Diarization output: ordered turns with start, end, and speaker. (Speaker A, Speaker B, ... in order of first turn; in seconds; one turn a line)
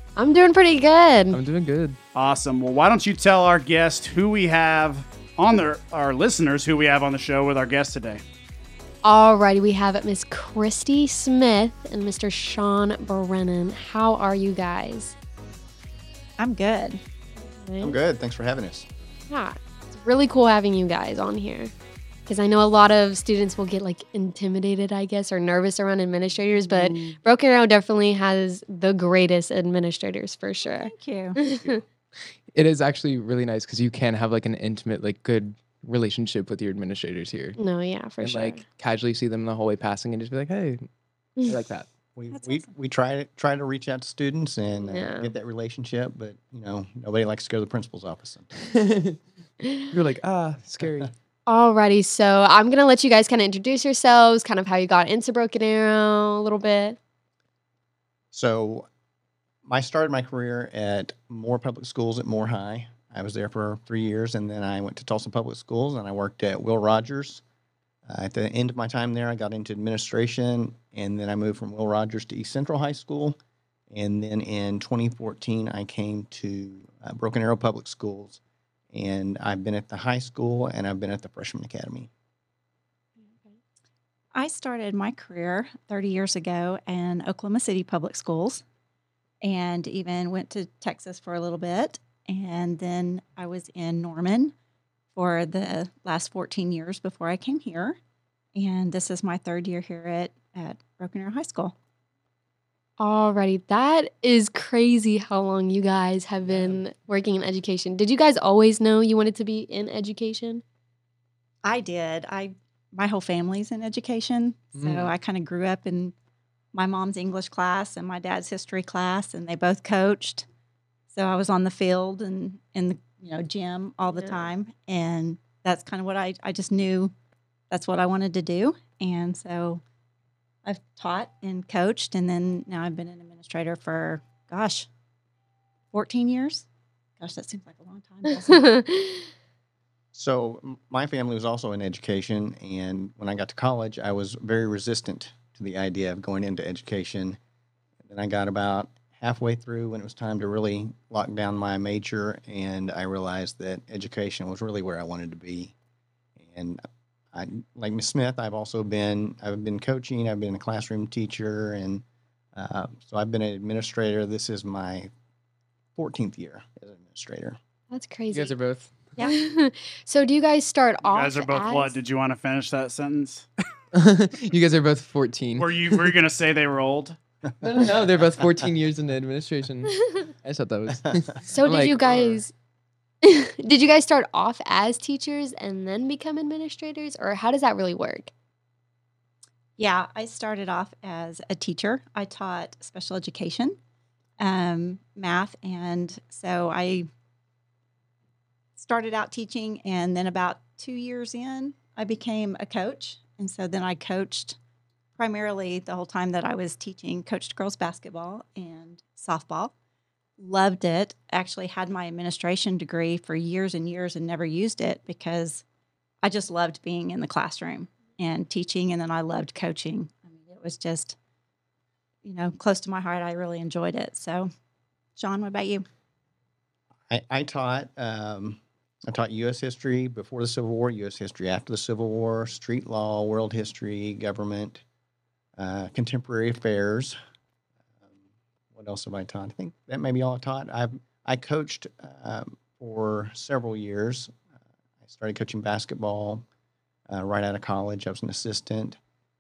Speaker A: 0.1-1.4
Speaker B: 1.3-2.0
Speaker C: 2.1-8.2
Speaker A: 9.0-15.2
Speaker D: 16.4-17.0
Speaker A: 17.4-18.0
Speaker E: 17.8-18.9
Speaker A: 19.3-21.7
Speaker A: 22.2-31.8
Speaker D: 30.7-31.4
Speaker B: 32.5-37.6
Speaker A: 37.6-38.6
Speaker B: 38.2-40.9
Speaker B: 41.5-41.9
Speaker E: 42.1-48.5
Speaker D: 42.3-42.7
Speaker A: 44.8-45.3
Speaker B: 48.6-49.2
Speaker B: 49.9-51.1
Speaker A: 51.5-57.0
Speaker E: 58.3-58.9
Speaker E: 59.6-67.4
Speaker E: 68.1-73.4
Speaker E: 73.9-78.4
Speaker E: 78.9-82.1
Speaker D: 84.3-88.6
Speaker D: 89.4-94.5
Speaker D: 95.1-98.0
Speaker D: 98.5-101.7
Speaker A: 103.0-110.6
Speaker D: 111.6-116.1
Speaker B: 114.8-115.1
Speaker D: 116.7-120.4
Speaker D: 121.1-127.1
Speaker D: 127.7-129.8
Speaker D: 130.6-134.9
Speaker D: 135.9-136.7
Speaker D: 137.2-138.7
Speaker A: 138.5-139.2
Speaker E: 140.1-147.4
Speaker E: 148.1-155.7
Speaker E: 156.4-156.8
Speaker E: 157.3-162.0
Speaker E: 162.5-165.1
Speaker E: 165.9-167.6
Speaker A: 167.9-168.5
Speaker B: 168.3-169.0
Speaker A: 169.2-172.0
Speaker C: 171.0-173.5
Speaker B: 173.9-175.8
Speaker C: 175.6-177.2
Speaker B: 177.6-182.3
Speaker E: 180.9-181.2
Speaker A: 181.5-182.5
Speaker A: 183.2-188.3
Speaker D: 189.8-193.8
Speaker D: 194.4-197.1
Speaker D: 198.8-204.6
Speaker D: 205.2-209.7
Speaker D: 210.4-215.6
Speaker D: 216.2-221.2
Speaker D: 222.2-224.5
Speaker D: 225.2-225.8
Speaker E: 227.1-234.8
Speaker E: 235.6-237.2
Speaker E: 238.7-244.3
Speaker E: 245.0-246.4
Speaker E: 247.1-249.0